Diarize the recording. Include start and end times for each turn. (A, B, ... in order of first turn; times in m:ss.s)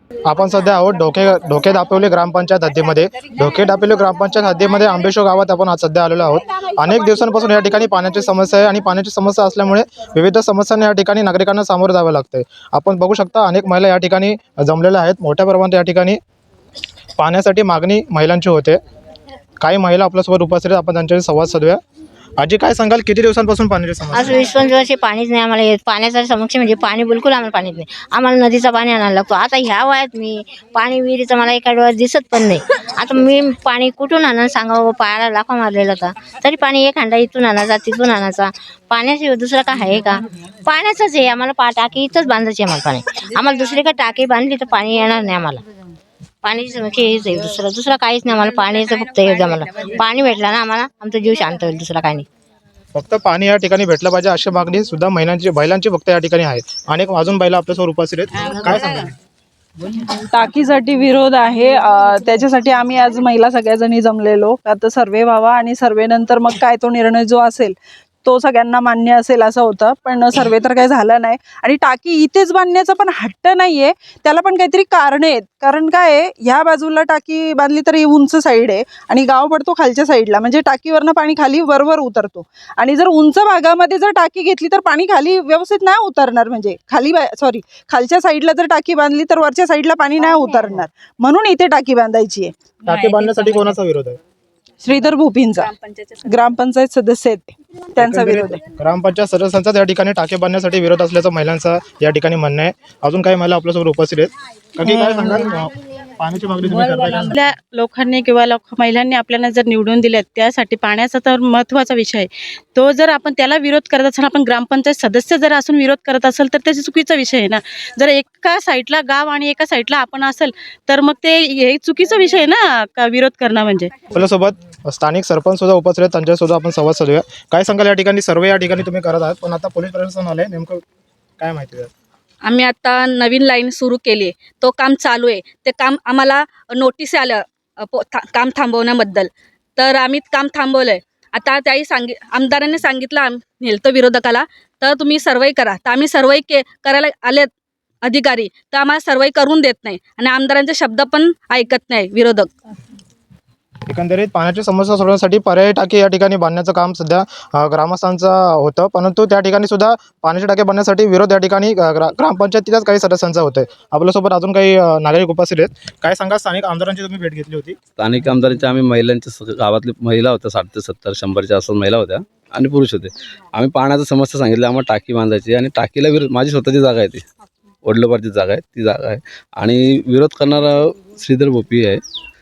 0:00.3-0:16.2 A
0:17.2-0:18.8 A
0:19.6-0:21.8 A
0:22.4-0:24.5 A
0:24.1-0:45.6 B
0:46.4-0:52.3 B
0:53.0-0:59.1 A
1:00.0-1:32.5 C
1:32.9-1:34.2 A
1:32.9-1:33.8 D
1:34.8-1:35.7 C
1:35.6-1:36.4 D
1:36.2-1:38.6 C
1:38.0-1:47.4 A
1:47.4-2:03.9 E
2:04.1-2:10.8 A
2:11.4-2:11.9 A
2:12.4-2:27.5 D
2:28.0-2:32.5 D
2:33.9-2:47.8 A
2:48.0-2:57.2 F
2:57.8-3:02.0 F